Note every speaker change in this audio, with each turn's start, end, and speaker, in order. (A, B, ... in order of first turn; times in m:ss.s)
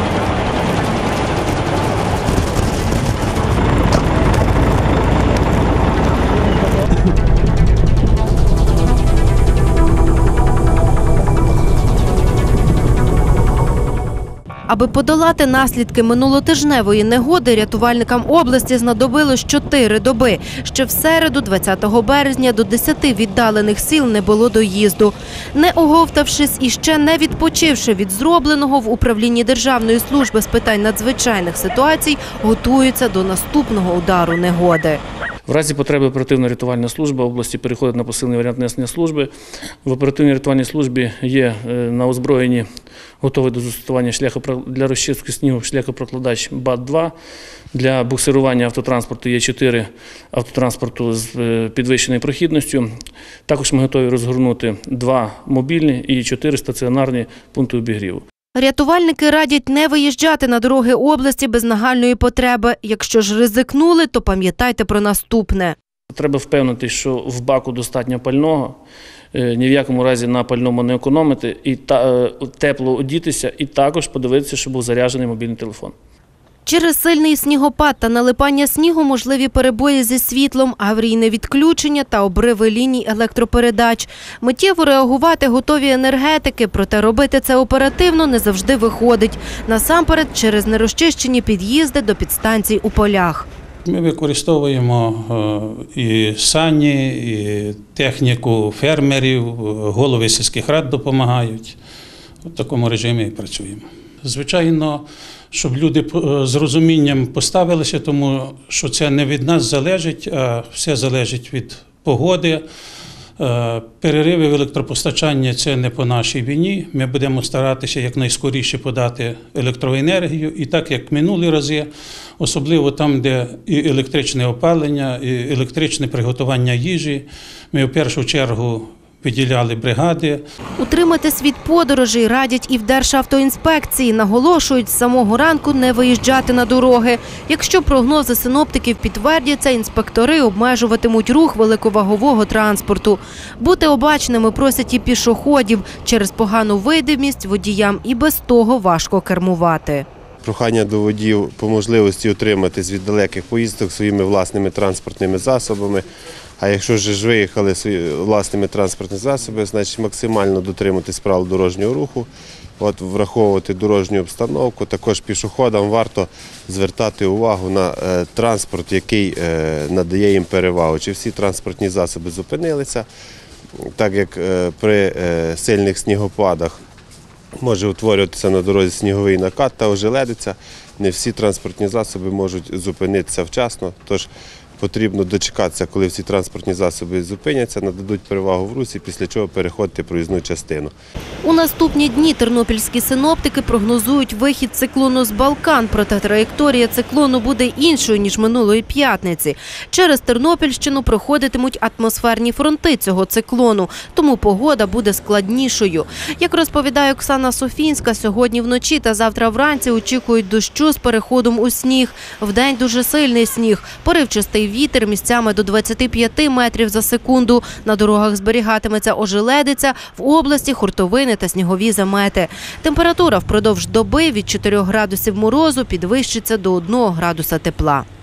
0:14.7-0:35.0 A
0:35.5-0:39.3 B
0:39.8-0:42.6 B
0:43.2-0:47.1 B
0:47.7-0:52.9 B
0:53.5-0:58.2 B
0:58.5-1:05.7 A
1:06.1-1:08.8 B
1:09.3-1:15.9 B
1:16.6-1:33.5 A
1:33.8-1:41.8 C
1:42.5-1:52.6 C
1:53.4-2:10.4 C
2:10.8-2:30.0 A
2:30.4-2:36.0 D
2:36.6-2:42.3 D
2:42.8-2:53.1 D
2:53.8-2:56.8 D
2:57.6-3:10.9 D
3:11.4-3:48.0 A